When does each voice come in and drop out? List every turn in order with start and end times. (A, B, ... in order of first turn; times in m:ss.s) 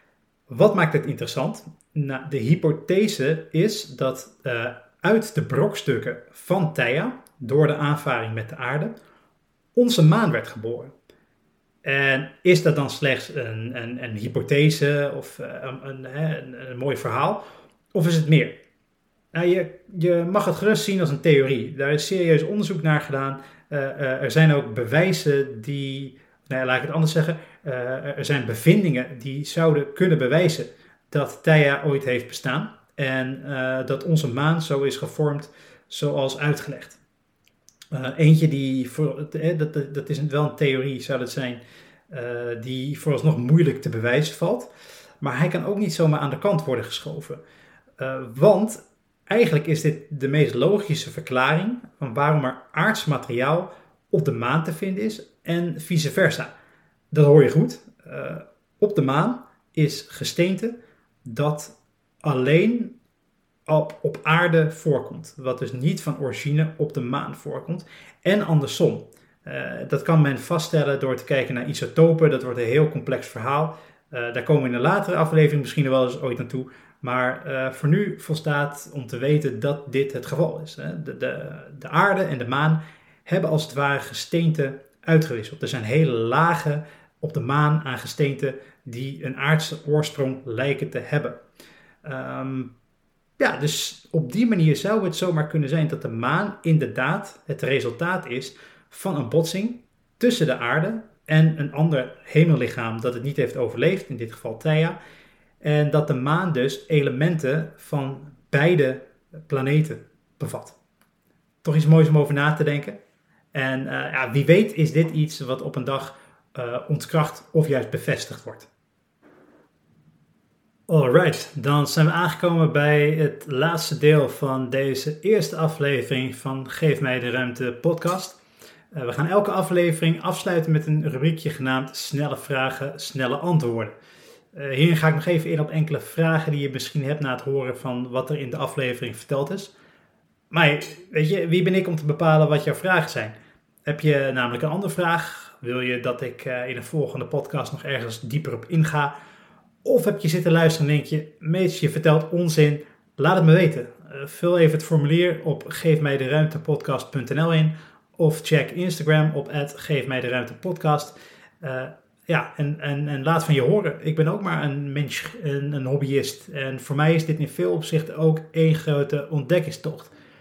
0:00.5-0:08.9 A
0:09.8-0:10.9 A
0:11.8-0:18.6 A
0:19.3-0:37.0 A
0:37.9-0:44.7 A
0:45.2-0:47.4 A
0:48.0-0:56.5 A
0:57.1-1:03.0 A
1:03.7-1:31.4 A
1:32.0-1:32.7 A
1:33.4-1:45.0 A
1:45.6-1:50.8 A
1:51.6-1:53.0 A
1:53.5-1:58.7 A
2:00.9-2:08.4 A
2:08.9-2:13.9 A
2:14.5-2:19.7 A
2:20.5-2:23.3 A
2:23.8-2:29.1 A
2:29.8-2:50.1 A